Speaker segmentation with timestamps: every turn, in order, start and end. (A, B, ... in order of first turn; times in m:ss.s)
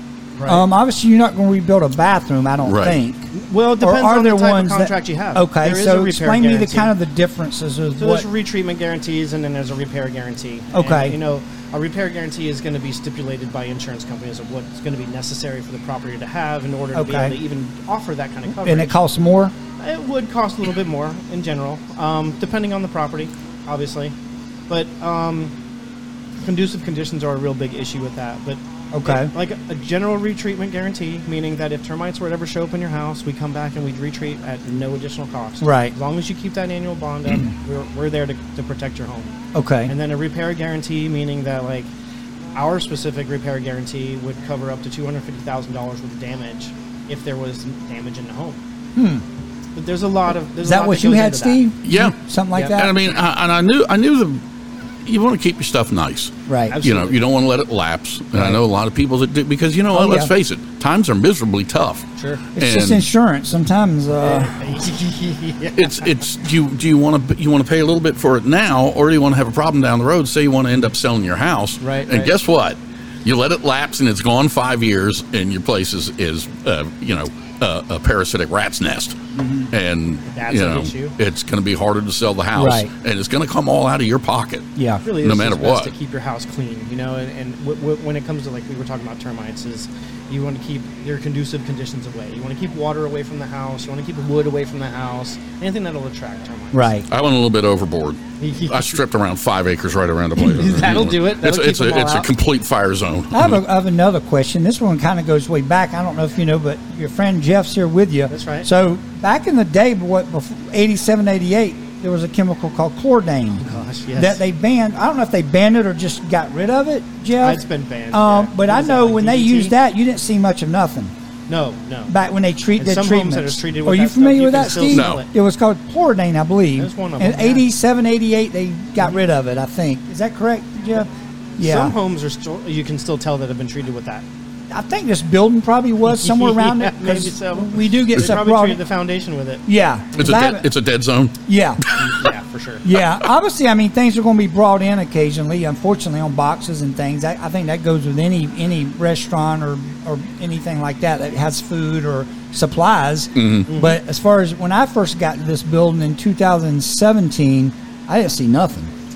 0:00.4-0:00.7 A
0:00.5-0:08.2 B
0:02.6-0:03.0 C
0:03.3-0:06.9 A
0:08.0-0:19.0 A
0:10.7-0:11.2 B
0:16.9-0:17.4 B
0:18.6-0:19.5 B
0:19.8-0:24.1 A
0:24.7-0:25.5 A
0:26.4-0:39.4 A
0:28.9-0:29.3 B
0:35.6-0:35.9 B
0:39.5-0:39.9 B
0:39.9-0:41.9 A
0:42.6-0:48.6 A
0:49.0-0:49.2 B
0:49.8-0:51.6 A
0:50.6-0:52.9 B
0:51.8-0:54.4 C
0:55.0-1:03.0 C
0:56.5-0:56.8 B
0:56.7-0:57.2 A
0:59.9-1:00.3 B
1:02.2-1:02.4 A
1:02.5-1:04.6 B
1:04.2-1:06.1 A
1:05.8-1:19.2 C
1:11.8-1:12.4 A
1:19.4-1:19.7 B
1:19.7-1:25.9 C
1:20.3-1:21.2 A
1:22.5-1:22.9 B
1:24.8-1:25.0 B
1:25.0-1:37.0 A
1:36.7-1:37.0 B
1:37.1-1:43.6 C
1:38.4-1:39.0 A
1:40.4-1:42.3 A
1:43.3-2:01.1 B
1:48.3-1:48.7 A
1:53.6-1:54.4 A
1:57.4-1:59.8 A
2:01.5-2:02.1 A
2:02.1-2:12.0 B
2:02.8-2:05.3 A
2:04.9-2:05.2 C
2:06.8-2:07.6 A
2:11.6-2:14.2 A
2:14.7-2:18.8 B
2:16.0-2:19.6 A
2:19.7-2:20.7 B
2:20.2-2:22.1 C
2:21.5-2:21.8 B
2:22.0-2:22.9 A
2:22.8-2:38.9 B
2:33.4-2:33.7 C
2:33.7-2:34.0 A